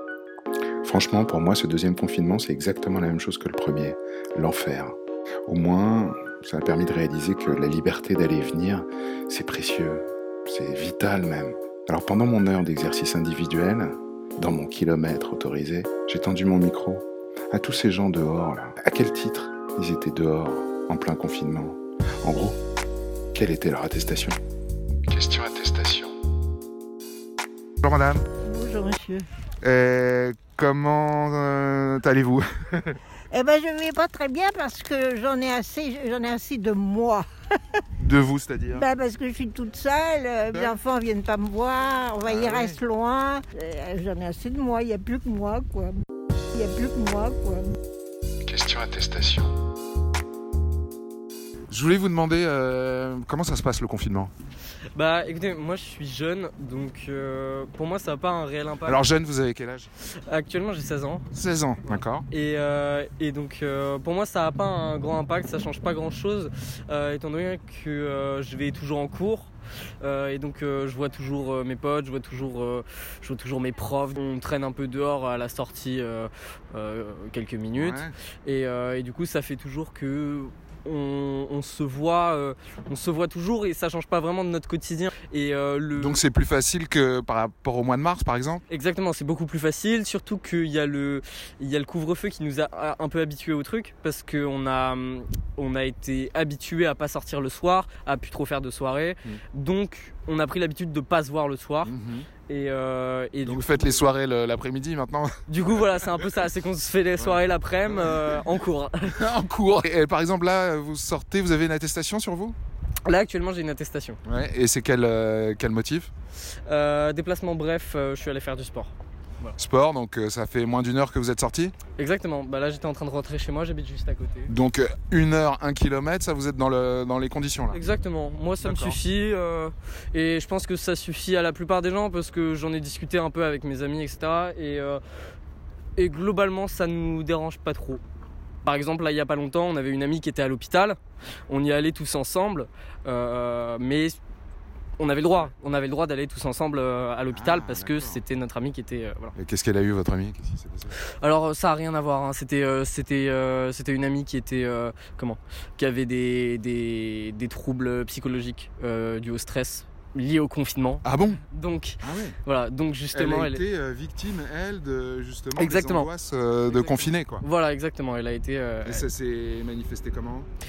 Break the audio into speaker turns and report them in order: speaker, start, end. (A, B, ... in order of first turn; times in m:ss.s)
0:00.8-0:05.0 A
0:05.5-0:22.6 A
0:23.3-0:24.4 A
0:25.1-0:26.1 B
0:27.8-0:28.2 C
0:28.4-0:29.3 D
0:29.6-0:33.0 C
0:33.3-0:37.2 D
0:38.0-0:38.8 C
0:38.7-0:46.0 D
0:42.2-0:42.8 C
0:46.5-0:47.7 D
0:48.4-0:49.5 B
0:51.7-0:54.3 C
0:54.9-0:59.0 E
0:58.8-0:59.9 C
1:00.0-1:01.3 E
1:01.3-1:02.2 C
1:01.9-1:26.2 E
1:17.7-1:18.1 C
1:26.0-1:28.6 C
1:28.7-1:41.9 E
1:41.8-1:42.3 C
1:42.5-1:44.1 E
1:43.4-1:46.2 C
1:45.5-1:49.2 E
1:47.2-1:48.4 C
1:49.0-1:52.6 C
1:53.0-1:54.2 E
1:54.2-1:56.1 C
1:56.5-1:59.6 E
1:59.6-2:01.7 C
2:02.0-2:04.5 E
2:04.5-2:07.8 C
2:07.7-2:15.0 E
2:08.6-2:09.0 C
2:16.0-2:18.0 E
2:18.6-2:24.2 E
2:25.0-2:29.3 E
2:27.3-2:28.2 C
2:29.3-2:31.0 C
2:31.1-2:43.6 E
2:41.0-2:41.4 C
2:42.0-2:42.4 C
2:43.1-2:47.4 C
2:45.5-2:46.1 E
2:46.7-2:49.1 E
2:48.8-2:50.5 C